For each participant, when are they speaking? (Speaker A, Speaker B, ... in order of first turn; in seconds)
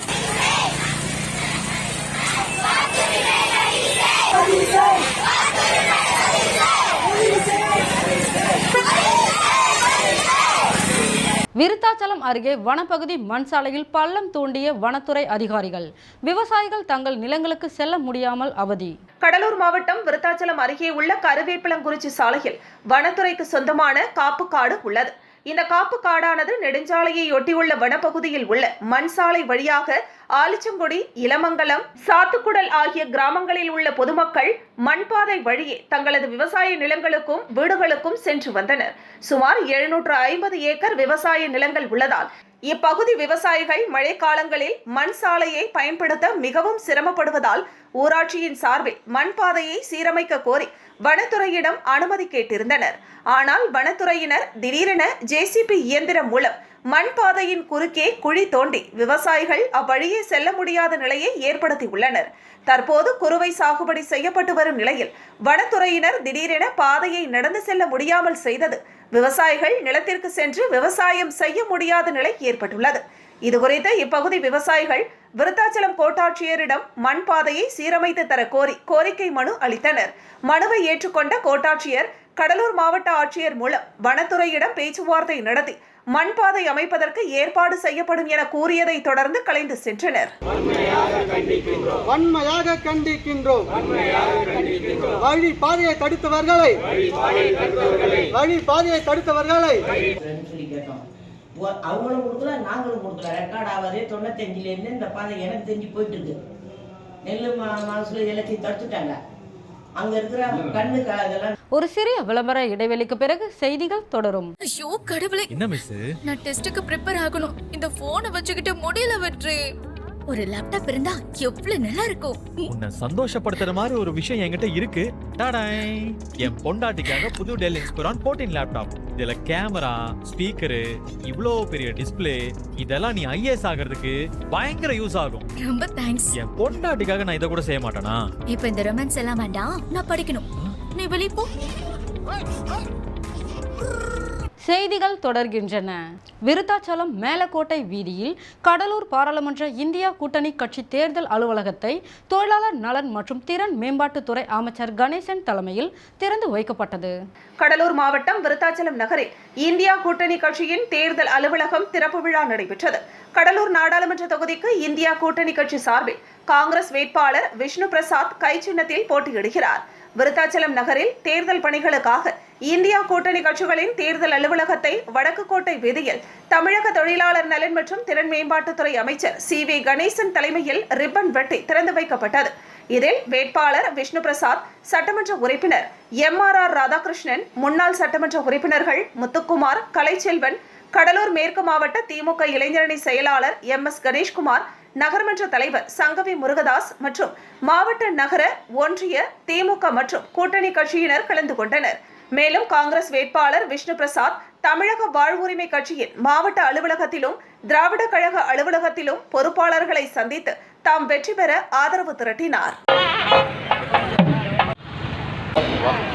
Speaker A: 11.6-18.9, 111.7-114.5, 144.6-157.1
Speaker B: 19.2-90.3, 157.6-212.8
Speaker C: 91.9-96.8, 97.4-97.7, 98.3-99.8
Speaker D: 100.2-101.0, 101.6-106.3, 107.2-109.2, 110.0-111.5
Speaker E: 114.6-115.5, 116.2-119.6, 120.3-122.7, 135.6-136.3, 138.5-141.5
Speaker F: 115.5-116.2, 122.7-135.5, 136.3-138.2